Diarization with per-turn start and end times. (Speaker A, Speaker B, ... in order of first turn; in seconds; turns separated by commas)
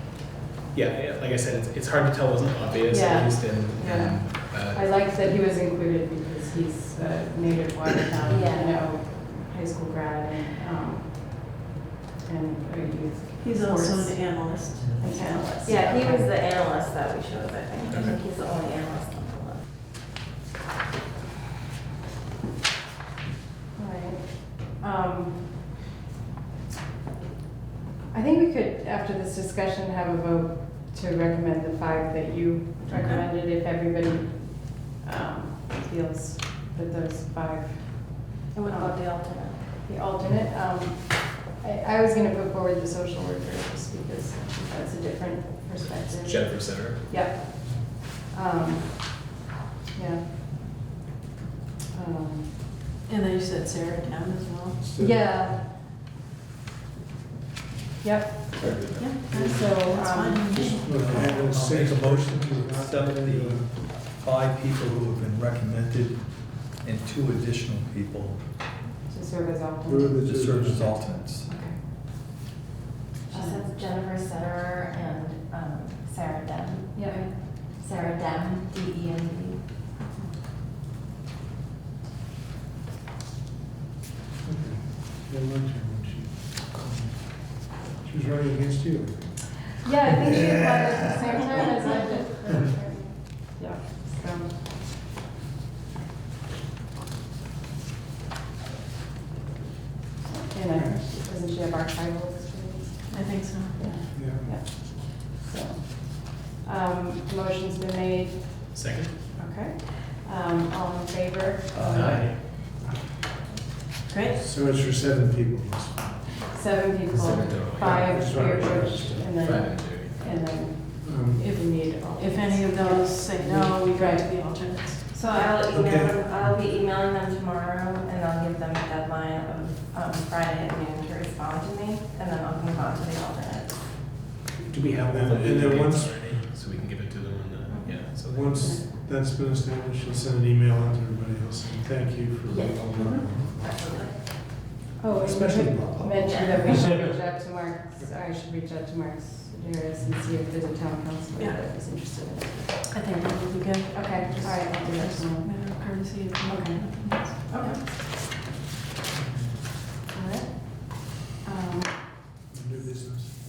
Speaker A: 0.7-5.2, Speaker B: 2.9-11.6, Speaker C: 8.2-8.9, Speaker B: 12.2-16.4, Speaker D: 13.4-15.5, Speaker C: 15.6-19.6, Speaker A: 17.9-18.1, Speaker B: 23.8-25.7, Speaker B: 28.1-49.3, Speaker D: 32.9-33.2, Speaker C: 38.5-39.6, Speaker A: 46.0-47.0, Speaker B: 49.9-50.7, Speaker B: 51.9-52.6, Speaker D: 53.1-54.8, Speaker E: 54.7-55.6, Speaker B: 55.0-55.7, Speaker B: 58.0-58.6, Speaker D: 59.0-61.5, Speaker B: 59.3-60.7, Speaker E: 60.5-63.7, Speaker F: 60.9-68.4, Speaker B: 69.1-70.2, Speaker E: 69.9-71.0, Speaker F: 70.1-71.5, Speaker B: 71.5-71.8, Speaker B: 73.3-73.7, Speaker C: 73.3-79.6, Speaker B: 76.9-77.5, Speaker B: 80.0-80.3, Speaker E: 84.4-90.3, Speaker B: 89.8-94.5, Speaker B: 100.2-112.5, Speaker E: 100.7-101.0, Speaker D: 103.1-103.8, Speaker E: 104.1-104.5, Speaker A: 108.7-109.2, Speaker A: 111.8-112.4, Speaker D: 114.1-114.4, Speaker E: 114.2-116.4, Speaker B: 116.4-124.5, Speaker A: 117.1-120.2, Speaker E: 117.8-119.3, Speaker E: 121.0-121.5, Speaker D: 122.2-125.5, Speaker C: 125.2-133.9, Speaker E: 125.7-126.5, Speaker A: 134.6-138.5, Speaker E: 135.0-136.4, Speaker B: 137.7-138.0, Speaker C: 137.8-138.0, Speaker E: 138.3-143.8, Speaker B: 138.5-138.8, Speaker C: 142.5-144.2, Speaker B: 145.0-153.0, Speaker E: 145.1-146.5, Speaker C: 146.2-146.8, Speaker D: 152.9-157.5, Speaker B: 153.9-155.6, Speaker B: 156.4-157.8, Speaker E: 159.1-159.6, Speaker B: 160.1-162.1, Speaker E: 162.5-163.3